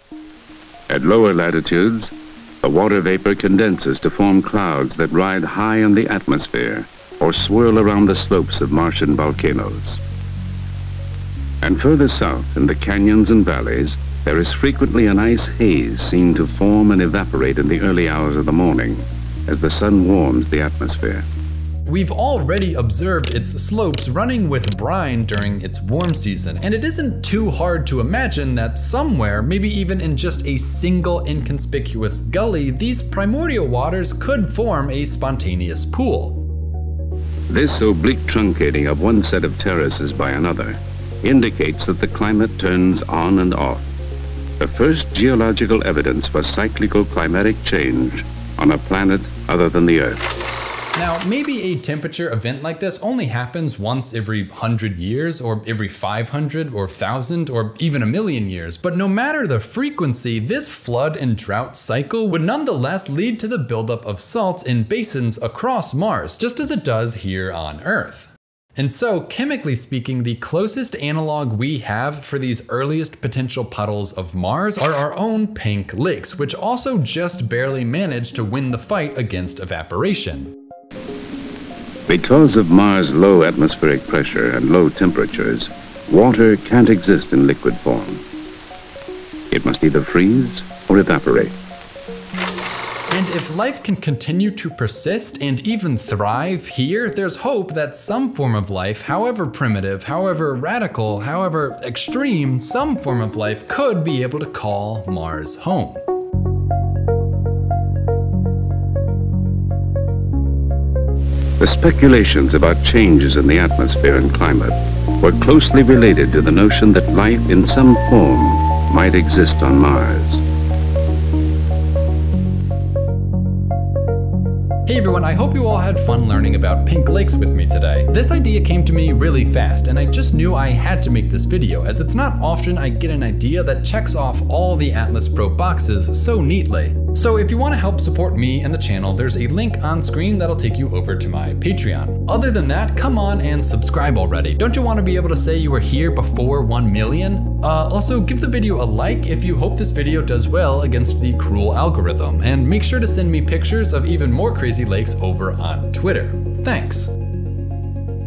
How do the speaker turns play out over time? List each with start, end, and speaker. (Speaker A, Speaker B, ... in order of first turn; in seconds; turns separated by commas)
Speaker A: 0.9-10.0, Speaker A: 11.6-21.2, Speaker B: 21.9-36.4, Speaker A: 37.5-43.9, Speaker A: 44.6-50.3, Speaker B: 50.9-80.6, Speaker A: 82.1-88.2, Speaker A: 89.5-91.5, Speaker B: 93.1-106.0, Speaker A: 111.6-120.4, Speaker B: 124.9-157.2